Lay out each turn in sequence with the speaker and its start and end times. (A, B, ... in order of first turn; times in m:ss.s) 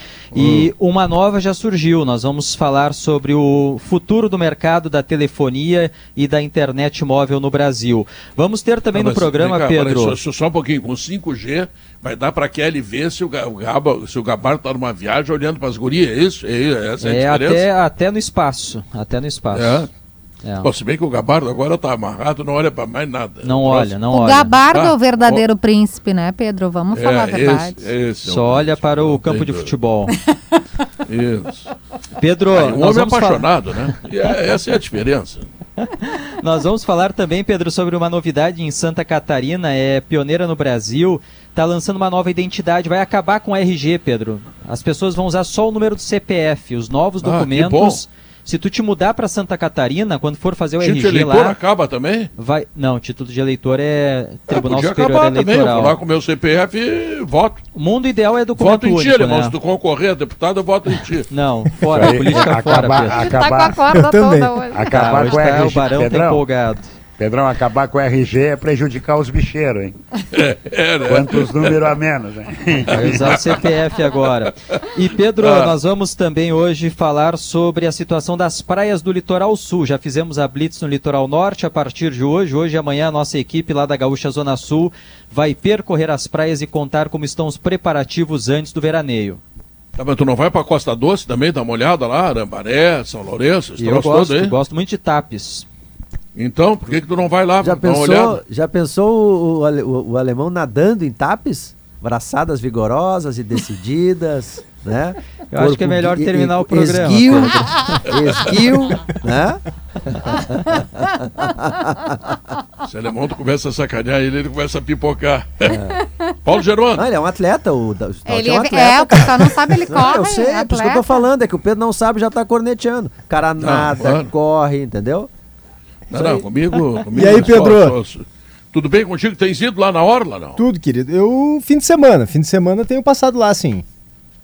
0:00.3-0:00.7 A
0:00.3-0:10.2 B
0:08.9-0:17.7 A
0:17.0-0:19.9 B
0:19.5-0:19.9 A
0:20.4-0:20.7 B
0:20.6-0:24.1 A
0:23.4-0:24.6 B
0:24.1-0:27.9 C
0:24.6-0:25.4 A
0:26.9-0:29.8 A
0:28.2-0:30.1 B
0:31.1-0:31.7 A
0:32.2-0:33.5 B
0:32.5-0:35.5 A
0:36.4-0:51.6 B
0:47.2-0:48.0 A
0:50.8-0:52.3 A
0:52.4-0:56.0 B
0:54.5-0:57.6 A
0:57.8-0:59.6 B
0:58.6-1:01.3 A
1:01.3-1:03.2 B
1:01.9-1:03.9 D
1:03.2-1:05.3 C
1:03.9-1:04.6 E
1:04.7-1:06.5 D
1:04.9-1:06.9 B
1:07.2-1:10.0 D
1:10.3-1:11.8 A
1:11.1-1:13.5 D
1:12.9-1:15.8 A
1:12.9-1:29.4 B
1:30.0-1:34.6 A
1:33.8-1:35.7 B
1:36.4-1:38.4 A
1:37.6-1:52.2 F
1:45.5-1:47.6 B
1:47.5-1:48.0 C
1:48.0-1:48.5 A
1:52.8-1:55.9 A
1:56.4-1:57.1 A
1:57.0-2:05.3 F
1:58.2-2:01.3 C
2:03.6-2:04.3 A
2:06.1-2:10.6 A
2:06.1-2:06.4 F
2:07.1-2:08.0 E
2:10.6-2:13.8 E